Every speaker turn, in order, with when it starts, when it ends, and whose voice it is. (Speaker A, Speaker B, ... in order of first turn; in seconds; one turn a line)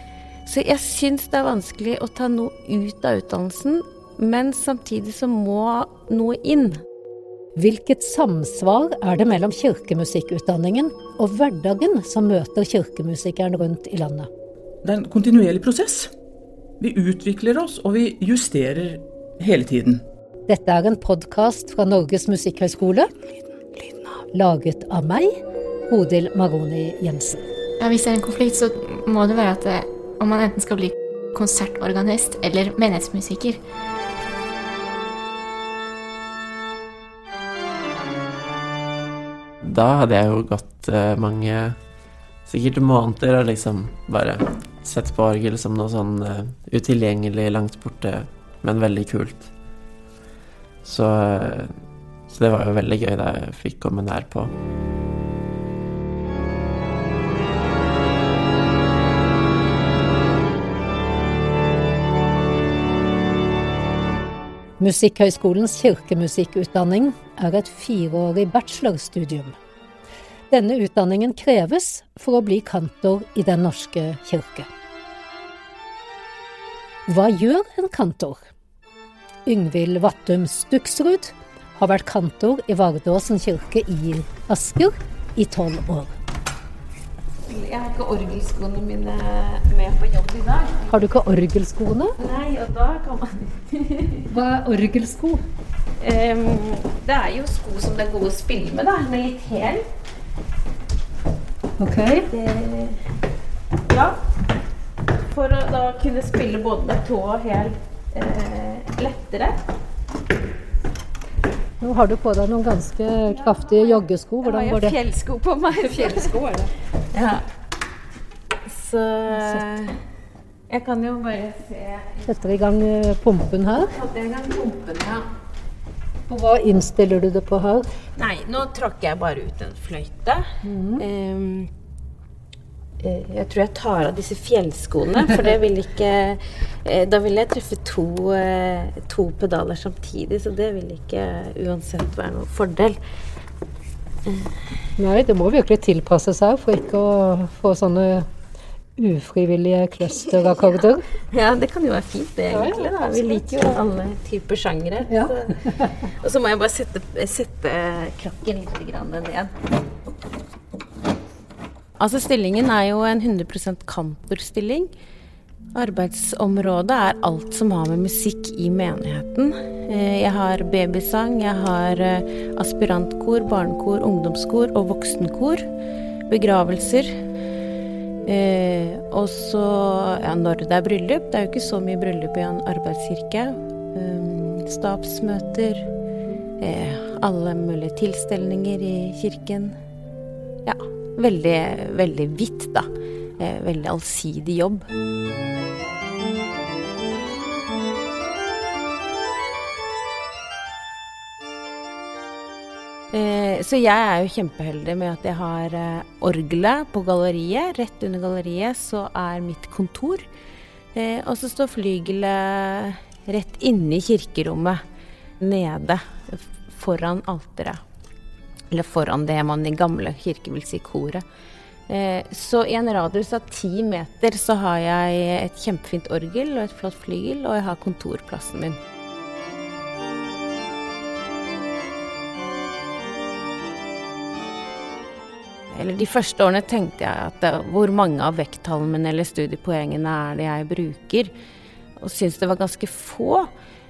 Speaker A: 0.5-6.8
Speaker B: 7.6-14.3
Speaker C: 14.8-16.1
Speaker C: 16.8-20.0
Speaker B: 20.5-23.1
Speaker B: 24.3-25.4
Speaker B: 25.9-27.4
Speaker D: 27.8-33.6
Speaker E: 39.6-41.8
Speaker E: 42.5-49.5
Speaker E: 50.8-51.8
Speaker E: 52.3-54.5
Speaker B: 64.8-69.6
Speaker B: 70.5-74.7
Speaker B: 77.1-78.5
Speaker B: 79.5-86.1
Speaker A: 87.5-90.9
Speaker B: 90.9-92.2
Speaker A: 92.2-94.3
Speaker B: 94.3-95.4
Speaker A: 96.0-99.8
Speaker B: 101.8-102.3
Speaker A: 102.3-103.0
Speaker A: 103.9-104.2
Speaker A: 105.3-109.6
Speaker B: 111.8-115.0
Speaker A: 113.4-116.4
Speaker B: 115.8-116.7
Speaker A: 117.1-117.4
Speaker A: 118.7-119.9
Speaker B: 119.3-119.6
Speaker A: 120.7-122.3
Speaker B: 122.3-123.9
Speaker A: 123.8-125.3
Speaker B: 126.3-127.9
Speaker A: 128.2-131.7
Speaker B: 130.6-131.0
Speaker A: 133.0-143.0
Speaker B: 145.0-148.3
Speaker B: 149.0-151.1
Speaker A: 150.1-159.5
Speaker B: 152.5-152.9
Speaker B: 155.1-155.9
Speaker A: 162.0-164.9
Speaker A: 165.7-175.7
Speaker A: 176.3-177.2
Speaker A: 178.2-185.9
Speaker A: 186.6-189.8
Speaker A: 190.7-194.9
Speaker A: 203.1-210.3
Speaker A: 210.9-214.8
Speaker A: 215.4-217.8
Speaker A: 218.7-221.2
Speaker A: 221.9-228.8
Speaker A: 235.7-241.3
Speaker A: 242.0-243.5